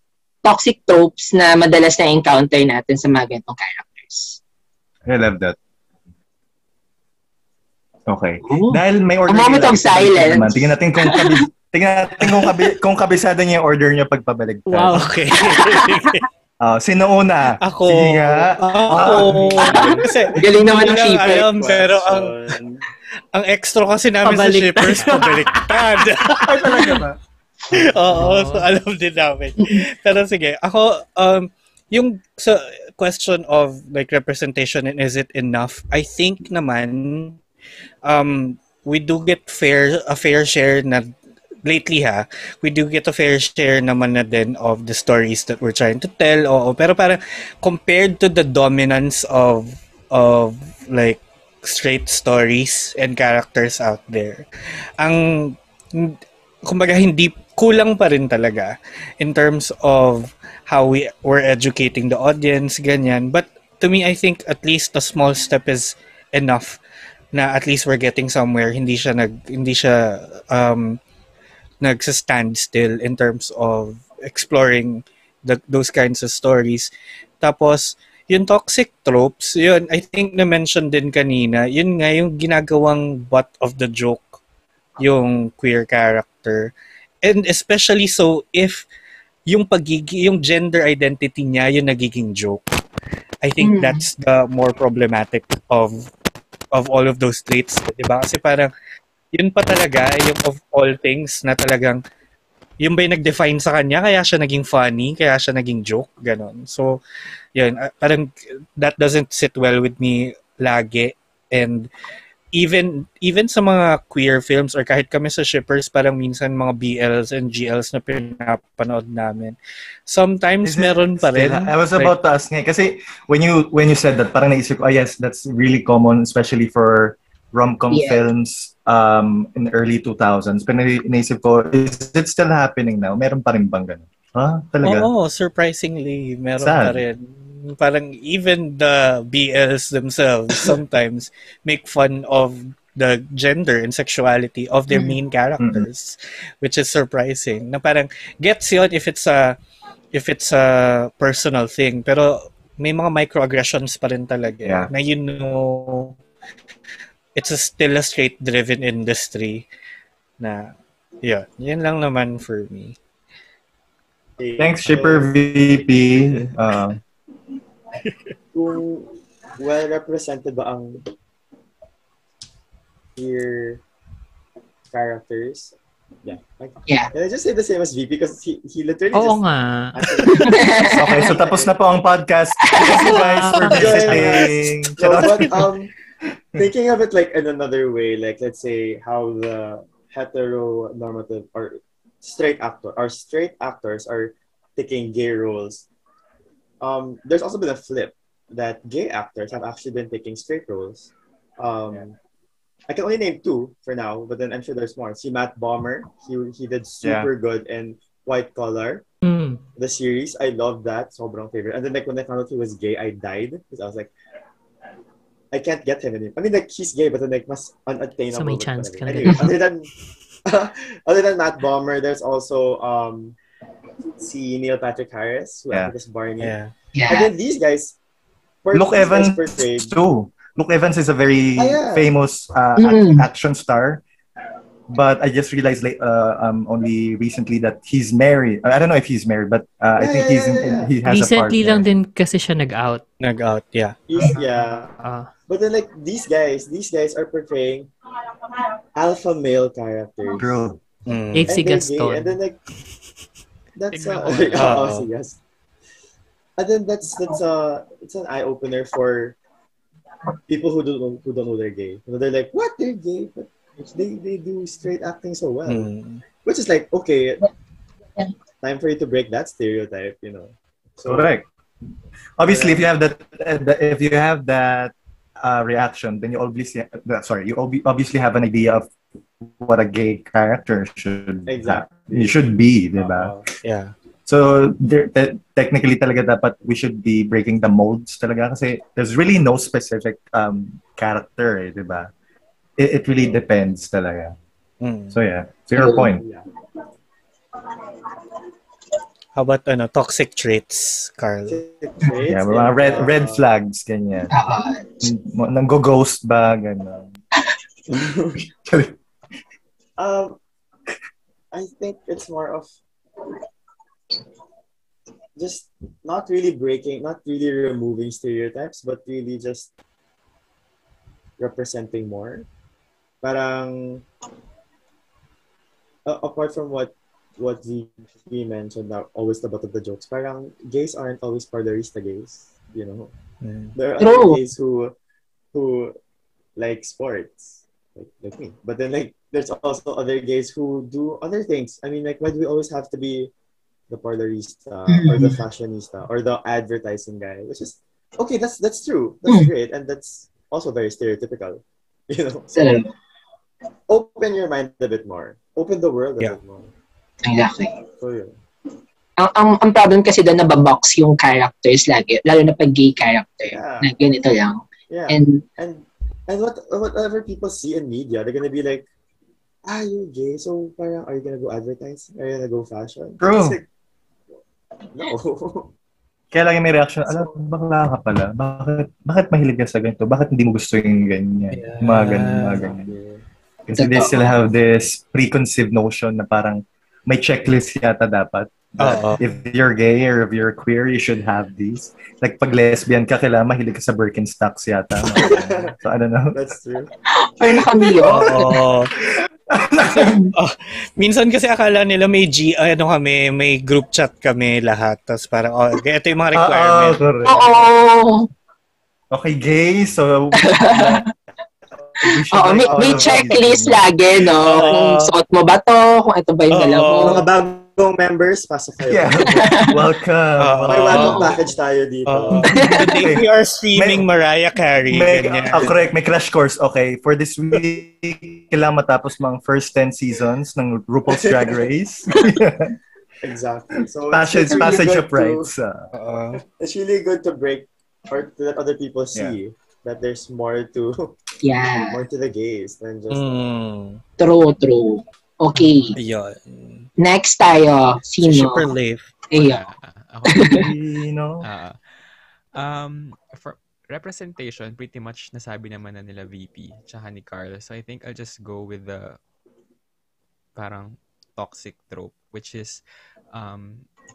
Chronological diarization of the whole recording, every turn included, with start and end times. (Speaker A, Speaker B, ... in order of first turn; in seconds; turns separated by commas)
Speaker A: 0.4-4.4, Speaker B: 5.1-5.6, Speaker B: 8.1-15.1, Speaker A: 8.5-11.4, Speaker C: 14.7-15.1, Speaker D: 14.9-16.3, Speaker A: 15.5-15.8, Speaker B: 16.6-20.1, Speaker D: 17.6-22.4, Speaker A: 19.7-21.5, Speaker E: 21.5-22.8, Speaker D: 23.3-27.0, Speaker C: 24.3-25.3, Speaker B: 26.3-27.2, Speaker D: 27.7-37.4, Speaker C: 27.8-28.7, Speaker D: 38.0-41.1, Speaker D: 41.6-54.5, Speaker D: 55.0-66.8, Speaker D: 67.3-71.0, Speaker D: 71.8-84.4, Speaker D: 85.0-88.9, Speaker D: 89.5-92.6, Speaker D: 93.4-96.1, Speaker A: 93.6-94.0, Speaker D: 96.7-98.7, Speaker D: 99.3-102.0, Speaker D: 102.8-107.0, Speaker D: 107.5-111.9, Speaker D: 112.5-122.1, Speaker B: 120.6-135.1, Speaker A: 127.9-128.2, Speaker D: 134.8-149.6, Speaker B: 136.6-137.0, Speaker A: 144.9-145.2, Speaker B: 145.6-145.9, Speaker D: 150.1-156.2, Speaker B: 154.6-154.9, Speaker D: 157.3-159.7, Speaker D: 160.4-163.0, Speaker E: 164.4-165.7, Speaker B: 164.6-167.0, Speaker E: 168.5-171.0, Speaker E: 173.2-173.8, Speaker E: 174.9-179.4, Speaker C: 179.1-180.0, Speaker E: 179.9-181.7, Speaker A: 180.3-181.3, Speaker B: 180.9-185.7, Speaker A: 182.6-183.2, Speaker C: 182.9-184.2, Speaker E: 183.7-185.9, Speaker E: 186.6-195.9, Speaker E: 196.8-202.2, Speaker E: 202.9-209.0, Speaker B: 207.0-207.3, Speaker C: 209.2-209.6, Speaker E: 209.8-214.1, Speaker E: 215.5-219.9, Speaker C: 218.3-219.5, Speaker E: 220.4-223.4, Speaker E: 224.2-228.0, Speaker D: 226.4-226.7, Speaker A: 226.9-227.3, Speaker E: 228.6-230.0, Speaker B: 228.7-234.0, Speaker E: 231.6-232.1, Speaker A: 232.8-233.3, Speaker B: 234.9-241.8, Speaker E: 240.0-240.9, Speaker C: 241.1-243.0, Speaker D: 243.2-244.0, Speaker E: 244.1-244.9, Speaker C: 244.2-245.3, Speaker E: 245.5-247.9, Speaker E: 249.0-250.6, Speaker B: 250.4-250.8, Speaker D: 251.1-251.6, Speaker C: 251.3-252.4, Speaker E: 251.5-252.6, Speaker E: 253.8-255.4, Speaker F: 253.9-255.0, Speaker D: 254.6-255.1, Speaker E: 256.6-259.4, Speaker E: 260.5-265.9, Speaker D: 265.7-266.2, Speaker E: 266.4-267.5, Speaker E: 268.6-271.3, Speaker B: 271.1-271.5, Speaker B: 272.4-278.9, Speaker E: 272.4-272.9, Speaker B: 279.4-283.3, Speaker E: 281.5-283.5, Speaker D: 283.6-283.9, Speaker B: 284.3-292.1, Speaker B: 292.8-294.4, Speaker D: 294.8-295.2, Speaker B: 295.1-296.2, Speaker A: 295.8-296.1, Speaker E: 296.0-296.5, Speaker D: 299.4-301.6, Speaker E: 301.5-303.4, Speaker B: 302.3-304.4, Speaker A: 304.3-305.1, Speaker B: 305.0-307.2, Speaker E: 307.9-308.4, Speaker B: 308.4-308.9, Speaker E: 310.0-310.4, Speaker E: 311.5-312.7, Speaker E: 315.4-319.7, Speaker E: 321.4-322.5, Speaker E: 323.2-324.1, Speaker E: 326.1-333.1, Speaker D: 333.4-333.7, Speaker E: 333.8-334.9, Speaker A: 334.0-334.4, Speaker E: 335.5-336.0, Speaker E: 336.6-343.3, Speaker E: 343.9-352.8, Speaker A: 344.9-345.4, Speaker A: 352.5-352.9, Speaker E: 353.9-356.7, Speaker A: 357.2-357.8, Speaker E: 358.0-358.4, Speaker A: 359.2-365.4, Speaker E: 363.5-363.9, Speaker E: 364.9-368.9, Speaker E: 369.6-373.6, Speaker B: 373.2-373.6, Speaker E: 374.9-375.7, Speaker B: 376.3-382.9, Speaker D: 381.5-382.7, Speaker E: 382.6-383.2, Speaker B: 383.7-396.4, Speaker A: 383.8-384.2, Speaker D: 388.8-389.2, Speaker E: 395.2-395.8, Speaker E: 396.3-396.9, Speaker A: 397.1-398.5, Speaker D: 398.1-398.9, Speaker B: 398.1-400.2, Speaker A: 400.0-400.3, Speaker D: 400.3-407.1, Speaker B: 406.3-407.6, Speaker A: 407.2-408.3, Speaker B: 409.1-411.1, Speaker A: 410.4-411.1, Speaker B: 412.0-413.9, Speaker A: 412.3-417.2, Speaker E: 412.5-413.3, Speaker D: 414.4-415.1, Speaker D: 416.5-417.2, Speaker E: 417.0-419.7, Speaker B: 418.9-421.2, Speaker A: 419.4-419.7, Speaker D: 420.4-421.3, Speaker E: 420.7-422.5, Speaker A: 420.9-421.4, Speaker D: 422.1-425.7, Speaker A: 422.5-422.9, Speaker B: 422.6-424.1, Speaker B: 424.9-432.7, Speaker E: 425.5-425.9, Speaker E: 431.1-431.6, Speaker E: 433.2-435.5, Speaker B: 434.1-435.9, Speaker A: 434.5-434.8, Speaker D: 435.9-436.4, Speaker E: 436.6-441.1, Speaker A: 441.4-442.0, Speaker E: 441.8-443.5, Speaker D: 443.1-444.0, Speaker A: 444.2-446.0, Speaker D: 445.9-446.9, Speaker A: 447.0-448.7, Speaker D: 448.2-449.1, Speaker A: 449.3-449.7, Speaker F: 449.4-450.7, Speaker A: 450.3-450.6, Speaker B: 450.5-451.5, Speaker F: 451.4-451.8, Speaker F: 452.5-459.2, Speaker F: 460.6-462.8, Speaker F: 463.3-463.9